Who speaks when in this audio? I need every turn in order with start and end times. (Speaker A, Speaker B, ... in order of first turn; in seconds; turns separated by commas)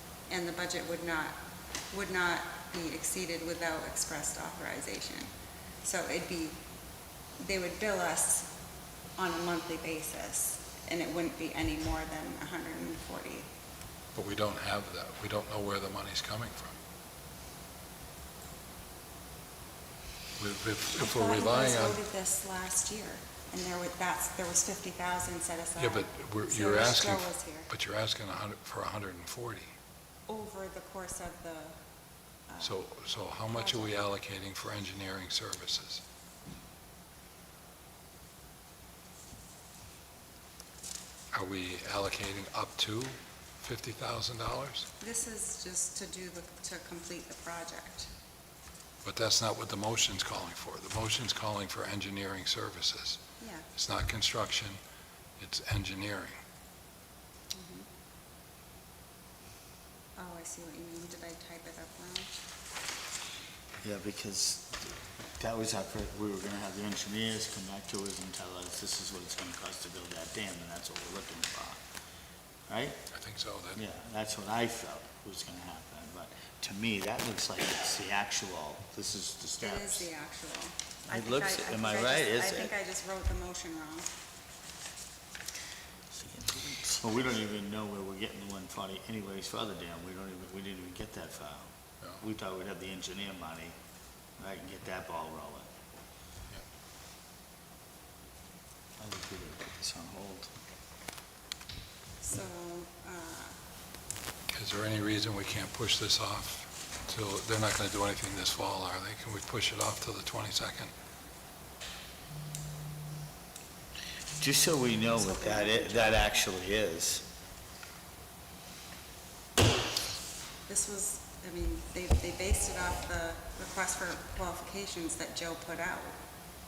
Speaker A: 0.3-1.4, Speaker A: 1.9-5.3, Speaker A: 5.8-6.6, Speaker A: 7.4-8.5, Speaker A: 9.2-13.5, Speaker B: 14.2-16.7, Speaker B: 20.4-22.0, Speaker A: 21.0-27.7, Speaker B: 25.8-29.7, Speaker A: 30.3-31.8, Speaker A: 32.5-32.8, Speaker B: 32.6-36.0, Speaker A: 33.5-33.9, Speaker B: 41.3-44.9, Speaker A: 45.0-48.1, Speaker B: 49.0-53.2, Speaker A: 53.4-53.7, Speaker B: 53.8-54.8, Speaker B: 55.4-56.4, Speaker A: 57.5-57.9, Speaker A: 60.2-62.4, Speaker C: 63.8-64.8, Speaker C: 65.4-71.8, Speaker C: 72.7-73.0, Speaker B: 73.1-73.8, Speaker C: 73.8-80.1, Speaker A: 79.6-84.1, Speaker C: 81.1-82.7, Speaker C: 86.1-91.7, Speaker C: 92.2-93.8, Speaker C: 94.4-95.7, Speaker C: 99.0-100.5, Speaker A: 102.2-103.5, Speaker B: 104.5-110.9, Speaker C: 114.4-117.2, Speaker A: 115.1-116.4, Speaker A: 120.7-126.2